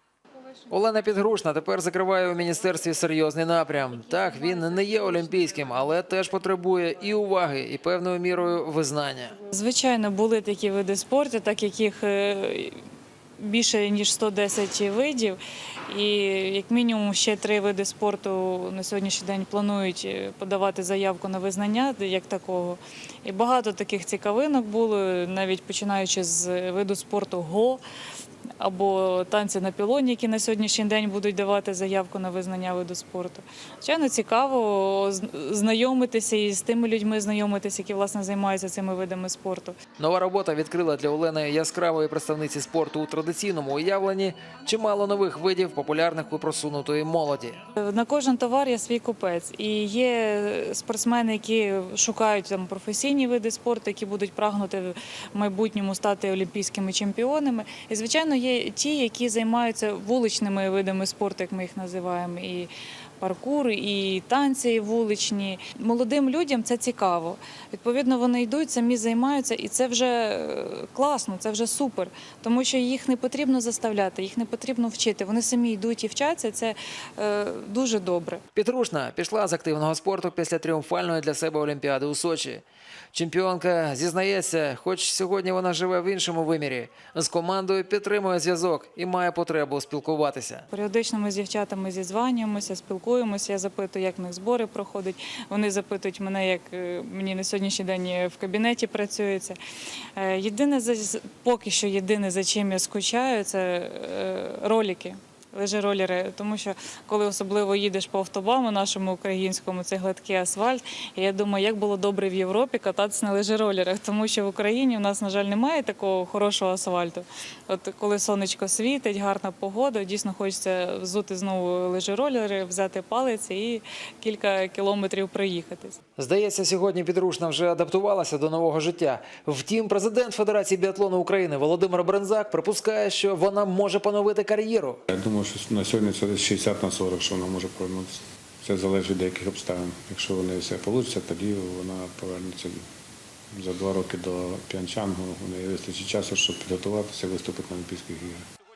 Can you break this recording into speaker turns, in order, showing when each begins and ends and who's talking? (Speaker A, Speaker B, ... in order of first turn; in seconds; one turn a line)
Speaker A: 0.7-9.4
Speaker B: 9.4-12.8
Speaker B: 13.4-27.8
Speaker B: 28.6-39.8
Speaker A: 40.0-47.6
Speaker B: 47.8-78.4
Speaker A: 78.5-90.7
Speaker B: 90.7-99.6
Speaker B: 100.1-126.0
Speaker A: 126.2-135.0
Speaker C: 135.1-142.8
Speaker C: 143.5-148.4